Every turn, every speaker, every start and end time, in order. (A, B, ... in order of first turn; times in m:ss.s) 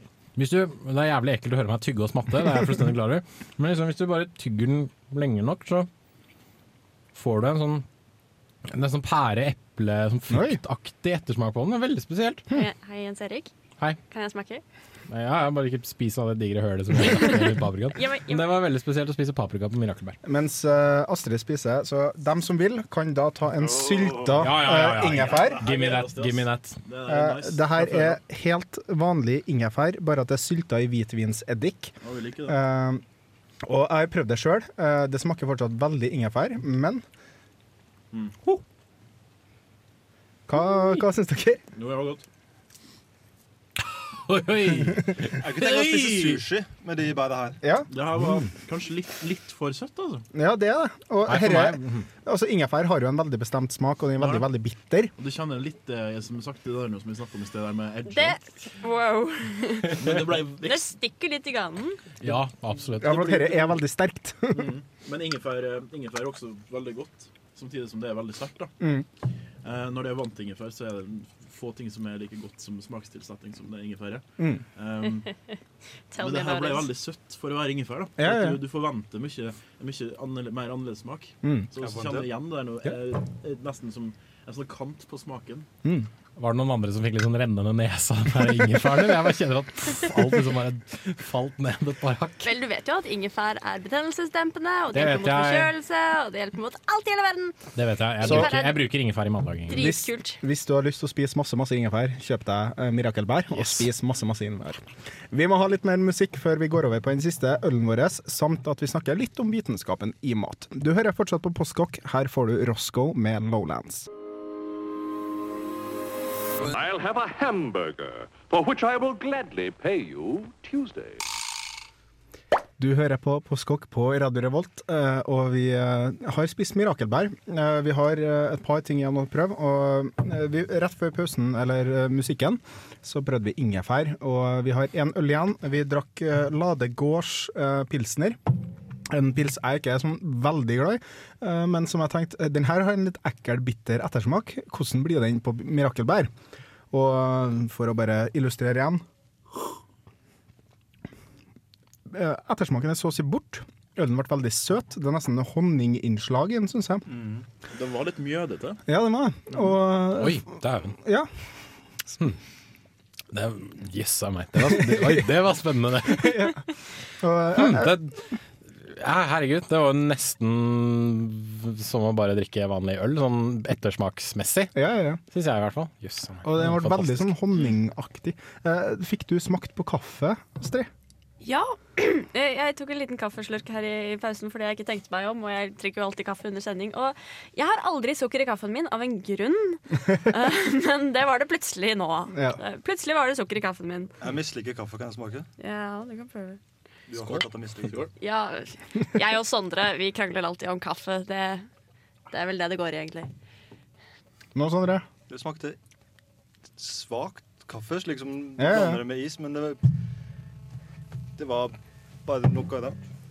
0:00.4-0:05.9 A
0:07.1-0:07.8 A
0:08.7-0:12.4 A
0:10.3-0:10.6 B
0:12.5-0:13.5 C
0:14.1-0:14.6 C
0:15.1-0:20.2 A
0:17.0-0:18.5 C
0:20.2-0:25.6 B
0:23.6-0:28.2 D
0:24.4-0:26.8 A
0:27.0-0:31.9 B
0:32.0-0:32.6 D
0:32.4-0:33.0 B
0:33.6-0:37.0 B
0:40.5-0:41.6 B
0:41.7-0:42.2 D
0:44.1-0:45.1 A
0:44.9-0:46.4 D
0:45.4-0:47.6 E
0:47.6-0:48.4 B
0:47.9-0:50.2 D
0:50.3-0:55.1 B
0:51.2-0:52.1 A
0:54.2-0:54.5 D
0:55.2-0:58.4 D
0:58.1-1:02.0 C
1:00.0-1:00.9 D
1:02.2-1:03.4 A
1:03.0-1:04.7 B
1:03.0-1:03.7 D
1:04.5-1:08.7 D
1:08.8-1:09.1 B
1:09.6-1:14.2 D
1:14.4-1:14.6 B
1:14.8-1:15.3 D
1:16.1-1:16.9 C
1:16.2-1:25.7 D
1:18.2-1:18.6 B
1:21.4-1:21.7 B
1:21.8-1:22.3 E
1:25.8-1:26.1 B
1:26.4-1:32.5 A
1:32.4-1:37.5 C
1:34.9-1:35.7 A
1:37.7-1:39.9 A
1:38.2-1:38.9 C
1:38.2-1:38.6 B
1:39.7-1:40.4 C
1:39.7-1:54.1 B
1:56.6-2:01.2 F
2:02.8-2:18.4 B
2:19.1-2:26.3 B
2:26.9-2:29.0 B
2:32.1-2:37.0 B
2:37.1-2:37.4 E
2:37.7-2:38.8 D
2:38.9-2:41.3 B
2:40.1-2:41.0 A
2:43.3-2:46.5 A
2:44.7-2:45.3 B
2:46.1-2:46.6 B
2:47.2-2:48.0 B
2:47.5-2:48.2 A
2:48.8-2:54.7 A
2:54.7-2:55.2 B
2:55.3-2:57.3 A
2:56.4-3:00.9 B
3:01.4-3:14.1 C
3:12.3-3:12.6 B
3:14.2-3:15.5 E
3:15.6-3:16.6 C
3:17.1-3:18.1 E
3:17.1-3:18.1 D
3:18.2-3:21.6 C
3:22.3-3:23.3 C
3:24.5-3:25.1 B
3:25.3-3:25.8 E
3:26.8-3:29.8 E
3:28.6-3:29.0 B
3:31.4-3:33.0 E